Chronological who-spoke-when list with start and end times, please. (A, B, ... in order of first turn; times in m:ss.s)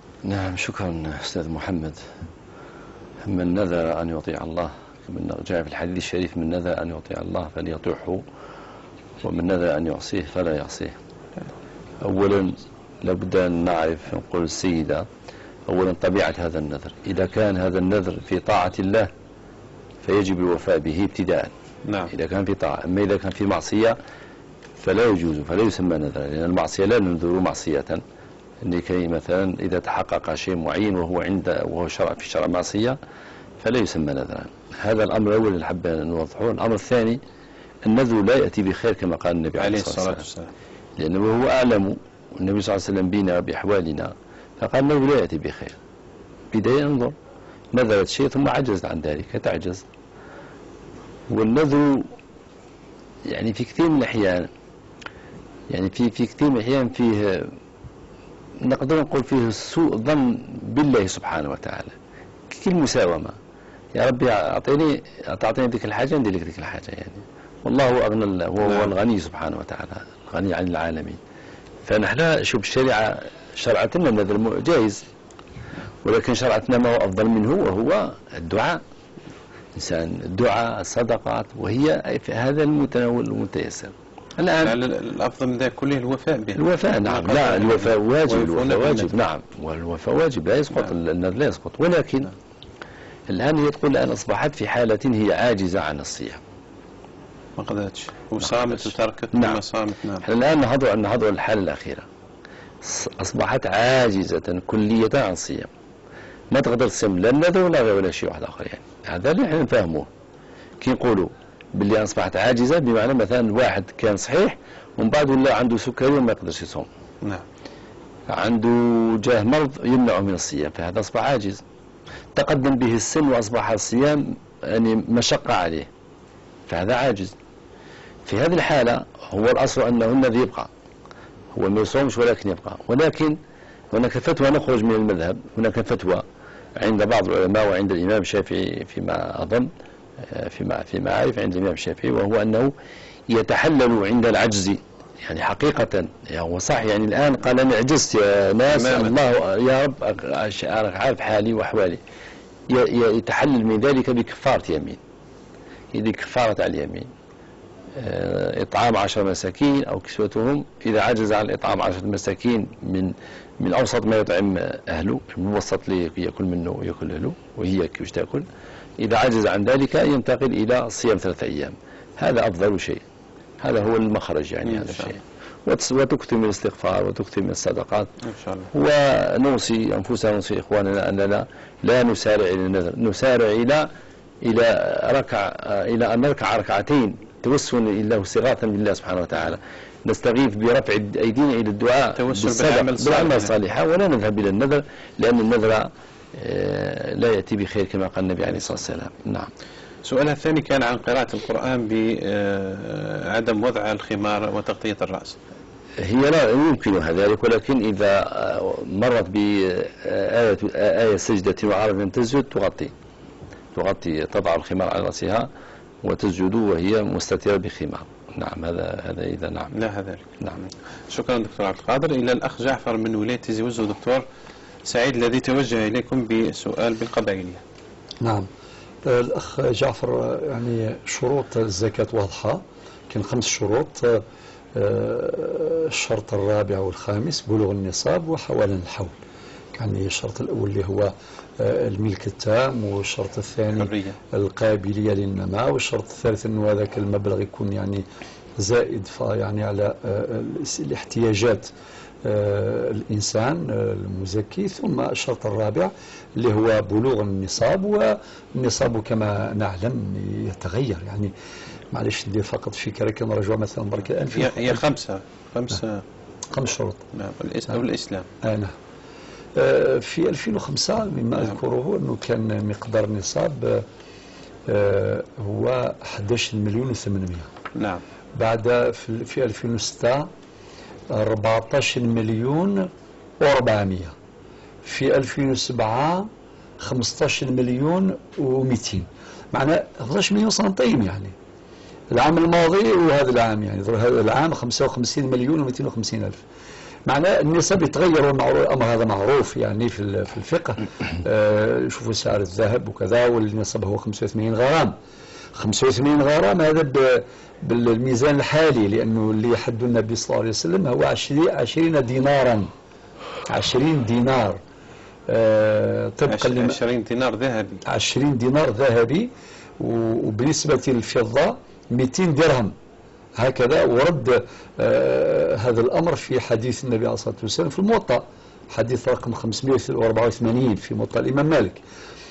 0:00.2-0:02.0 A
0:03.2-0:08.2 A
0:09.2-0:11.0 A
0:12.0-0:15.1 A
0:15.7-0:19.1 A
0:20.0-0:21.5 A
0:21.9-0:22.1 B
0:22.1-0:24.0 A
0:24.8-0:28.0 A
0:28.6-0:33.0 A
0:33.6-0:37.2 A
0:37.8-0:40.2 A
0:39.6-0:40.5 B
0:41.0-0:45.8 A
0:46.5-0:47.2 A
0:47.7-0:49.8 A
0:51.3-0:52.1 A
0:53.3-0:54.5 A
0:55.7-0:57.5 A
0:58.6-1:01.9 A
1:02.5-1:03.3 A
1:04.0-1:11.2 A
1:11.9-1:15.0 A
1:16.0-1:18.8 A
1:19.8-1:24.8 A
1:24.6-1:29.1 B
1:26.6-1:32.3 A
1:33.3-1:36.4 A
1:37.6-1:40.2 B
1:38.4-1:39.6 A
1:40.2-1:42.0 A
1:42.8-1:45.7 A
1:46.5-1:50.1 A
1:50.8-1:56.9 A
1:58.3-2:01.6 A
2:02.4-2:05.9 A
2:06.7-2:07.3 A
2:08.3-2:10.7 A
2:11.5-2:13.4 A
2:13.9-2:16.2 A
2:16.8-2:19.7 A
2:20.2-2:22.7 A
2:23.3-2:32.0 A
2:28.7-2:29.2 B
2:32.7-2:35.0 A
2:35.9-2:37.1 A
2:38.0-2:48.4 A
2:49.0-2:53.0 A
2:53.6-2:58.1 A
2:54.6-2:55.1 B
2:58.3-2:58.7 B
2:58.7-3:03.9 A
3:04.4-3:19.5 A
3:12.2-3:13.5 B
3:20.0-3:25.4 B
3:26.0-3:32.9 A
3:33.8-3:35.5 A
3:36.0-3:39.7 A
3:39.8-3:40.2 B
3:40.4-3:40.7 A
3:41.1-3:44.2 B
3:44.9-3:47.6 B
3:48.2-3:48.5 C
3:49.1-3:54.2 C
3:54.8-3:59.1 C
3:59.7-4:08.0 C
4:03.8-4:04.2 B
4:08.6-4:11.7 C
4:12.2-4:21.3 C
4:21.9-4:24.8 C
4:24.3-4:26.0 B
4:26.5-4:27.0 C
4:27.2-4:28.3 B
4:28.4-4:28.7 C
4:29.6-4:33.8 C
4:34.7-4:37.5 C
4:37.8-4:38.0 B
4:38.4-4:40.3 C
4:41.1-4:42.9 C
4:43.4-4:44.1 C
4:44.8-4:46.3 C
4:46.8-4:51.3 C
4:52.1-4:56.4 C
4:57.1-5:05.0 C
5:05.6-5:12.7 C
5:13.5-5:14.6 C
5:15.3-5:16.8 C
5:16.3-5:17.8 B
5:17.9-5:19.3 C
5:19.8-5:22.7 C
5:23.4-5:31.8 C